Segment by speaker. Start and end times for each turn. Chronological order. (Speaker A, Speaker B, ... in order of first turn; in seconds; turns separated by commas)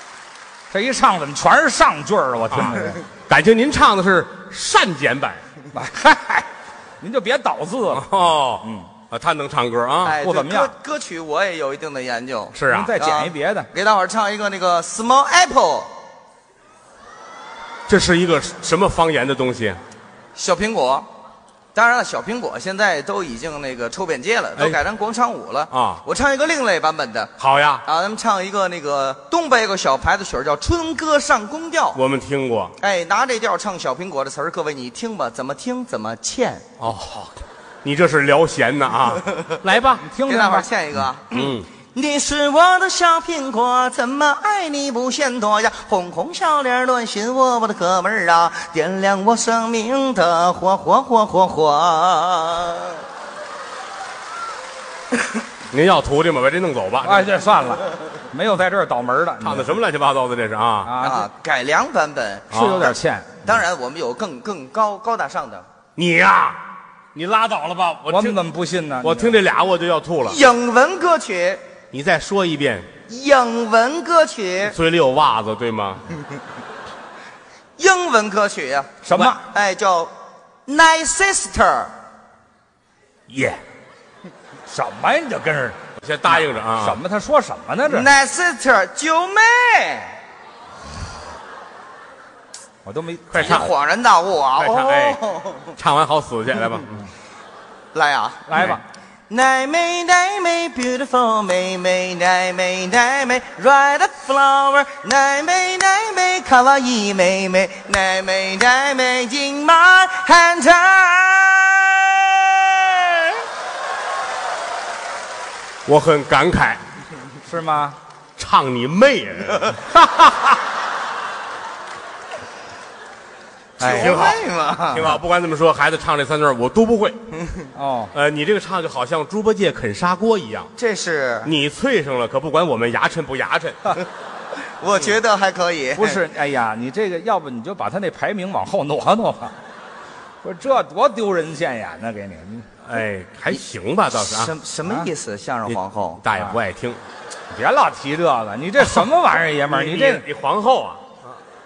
Speaker A: 0.7-3.0, Speaker B: 3.3-5.4, Speaker A: 5.7-6.5, Speaker A: 7.0-8.1, Speaker B: 7.9-10.2, Speaker A: 8.6-8.9, Speaker C: 10.0-15.9, Speaker A: 10.2-10.7, Speaker B: 12.5-12.9, Speaker A: 12.7-13.7, Speaker B: 17.9-19.8, Speaker C: 20.4-21.1, Speaker C: 21.7-27.3, Speaker B: 25.7-26.0, Speaker B: 27.4-27.8, Speaker C: 27.8-32.0, Speaker B: 31.9-32.7, Speaker C: 32.8-36.6, Speaker B: 36.8-40.1, Speaker C: 39.3-39.6, Speaker A: 40.0-40.7, Speaker C: 40.2-53.0, Speaker B: 41.3-41.7, Speaker B: 55.7-57.3, Speaker A: 57.0-59.8, Speaker B: 59.4-61.0, Speaker A: 60.8-61.3, Speaker C: 61.0-65.7, Speaker A: 62.5-63.5, Speaker B: 62.5-62.9, Speaker B: 66.0-66.6, Speaker B: 67.1-68.4, Speaker A: 68.1-69.4, Speaker B: 69.0-70.4, Speaker C: 70.2-71.6, Speaker B: 71.9-72.9, Speaker C: 73.1-74.7, Speaker B: 74.6-76.0, Speaker C: 77.8-80.1, Speaker A: 79.0-79.4, Speaker C: 80.7-81.9, Speaker A: 83.3-83.6, Speaker A: 84.7-88.1, Speaker B: 86.0-87.0, Speaker C: 87.9-90.2, Speaker A: 92.8-93.3, Speaker B: 93.3-93.7, Speaker C: 93.3-95.8, Speaker B: 94.6-95.2, Speaker B: 95.8-97.0, Speaker C: 97.9-98.7, Speaker A: 98.5-98.8, Speaker C: 99.3-113.4, Speaker B: 115.8-116.8, Speaker A: 117.5-118.0, Speaker B: 118.4-120.5, Speaker C: 123.8-125.2, Speaker B: 123.8-127.2, Speaker A: 127.7-128.1, Speaker B: 128.1-130.7, Speaker C: 130.8-131.5, Speaker B: 131.4-134.0, Speaker C: 134.8-136.2, Speaker A: 135.9-139.5, Speaker A: 140.4-142.7, Speaker B: 142.8-144.5, Speaker C: 144.2-146.2, Speaker B: 145.7-147.0, Speaker A: 147.5-150.2, Speaker B: 149.7-151.2